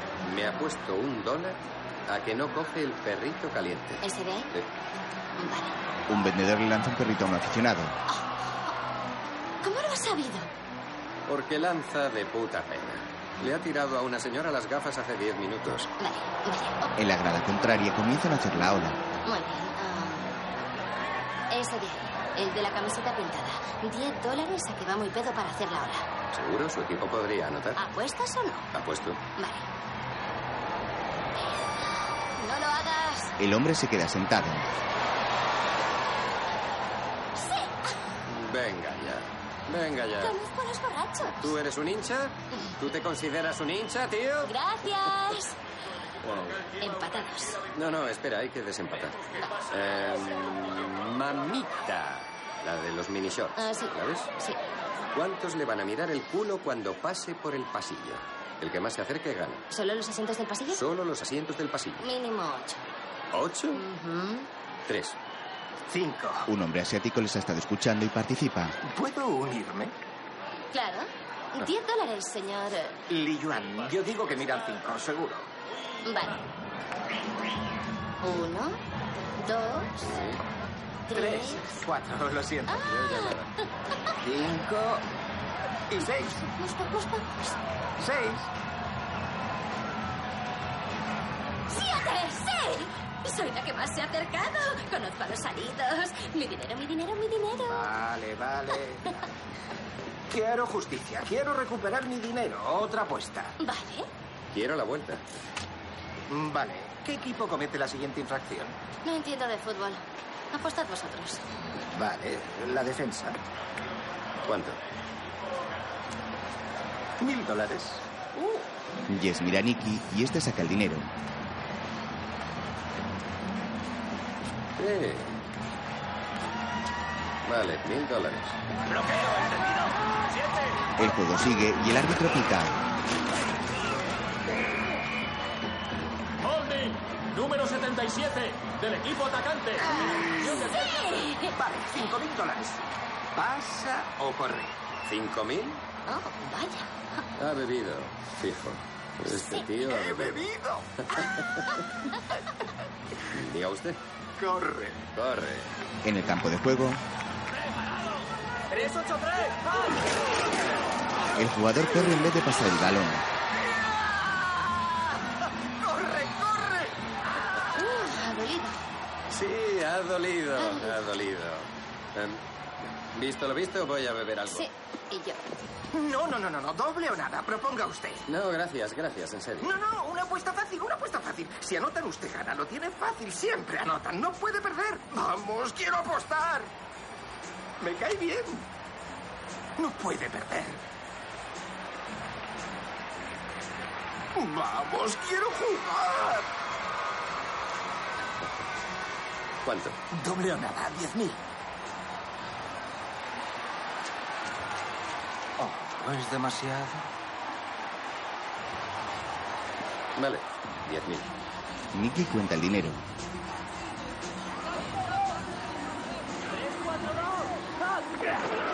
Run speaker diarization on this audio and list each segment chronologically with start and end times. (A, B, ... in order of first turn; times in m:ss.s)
0:00.2-0:04.7 A
0:04.0-0:04.5 B
0:05.4-0:05.8 B
0:06.1-0:08.0 C
0:08.1-0:08.7 B
0:09.6-0:10.5 B
0:11.3-0:15.9 A
0:16.0-0:16.9 B
0:17.0-0:19.0 C
0:19.2-0:20.4 B
0:21.5-0:26.1 B
0:26.3-0:27.8 A
0:27.8-0:28.7 B
0:28.7-0:29.2 A
0:29.4-0:29.7 B
0:31.8-0:33.3 B
0:33.4-0:34.7 C
0:37.4-0:38.0 B
0:38.2-0:40.4 A
0:40.2-0:41.5 B
0:41.4-0:44.5 A
0:44.4-0:45.6 B
0:46.2-0:46.6 A
0:46.8-0:47.6 B
0:47.7-0:54.3 A
0:53.6-0:54.6 B
0:55.1-0:59.6 A
0:59.7-1:00.8 B
1:00.7-1:02.0 A
1:02.0-1:02.8 B
1:03.3-1:03.8 A
1:03.7-1:04.5 B
1:04.8-1:05.2 A
1:05.9-1:06.5 D
1:06.5-1:08.8 C
1:08.8-1:09.9 D
1:10.7-1:13.0 B
1:13.1-1:15.5 D
1:16.0-1:16.4 B
1:18.2-1:18.8 B
1:19.4-1:20.1 B
1:20.0-1:20.4 A
1:21.1-1:21.8 B
1:21.1-1:22.8 D
1:22.7-1:23.4 B
1:22.7-1:23.5 A
1:24.2-1:25.0 D
1:25.9-1:26.5 D
1:26.5-1:27.6 B
1:28.0-1:28.5 D
1:31.7-1:37.8 B
1:37.6-1:39.1 D
1:40.3-1:43.6 D
1:43.6-1:44.1 B
1:44.5-1:45.2 A
1:46.3-1:48.8 D
1:49.0-1:51.4 B
1:51.9-1:53.4 D
1:54.4-1:54.8 A
1:57.2-1:58.6 D
1:59.1-2:01.1 C
2:04.8-2:05.4 A
2:07.4-2:08.6 A
2:08.9-2:10.8 E
2:11.0-2:12.8 C
2:16.4-2:19.9 E
2:19.8-2:20.6 D
2:20.0-2:21.5 B
2:20.4-2:21.2 E
2:21.5-2:24.8 D
2:25.0-2:25.8 A
2:26.1-2:27.2 B
2:27.4-2:30.5 A
2:29.2-2:29.7 B
2:29.8-2:30.9 D
2:33.3-2:34.0 A
2:34.4-2:35.0 D
2:35.1-2:35.7 A
2:36.0-2:37.0 C
2:38.7-2:39.5 E
2:41.3-2:43.2 C
2:43.8-2:44.9 D
2:45.8-2:47.0 D
2:47.8-2:48.8 B
2:49.3-2:54.7 A
2:50.6-2:51.0 B
2:54.5-2:55.4 B
2:55.9-2:58.2 D
2:58.3-2:59.7 A
2:59.6-3:06.7 D
3:07.8-3:08.7 D
3:09.8-3:10.8 D
3:14.3-3:16.5 D
3:19.6-3:20.0 A
3:20.1-3:21.4 D
3:25.6-3:27.1 D
3:30.2-3:31.3 A
3:31.9-3:33.0 C
3:37.9-3:38.5 D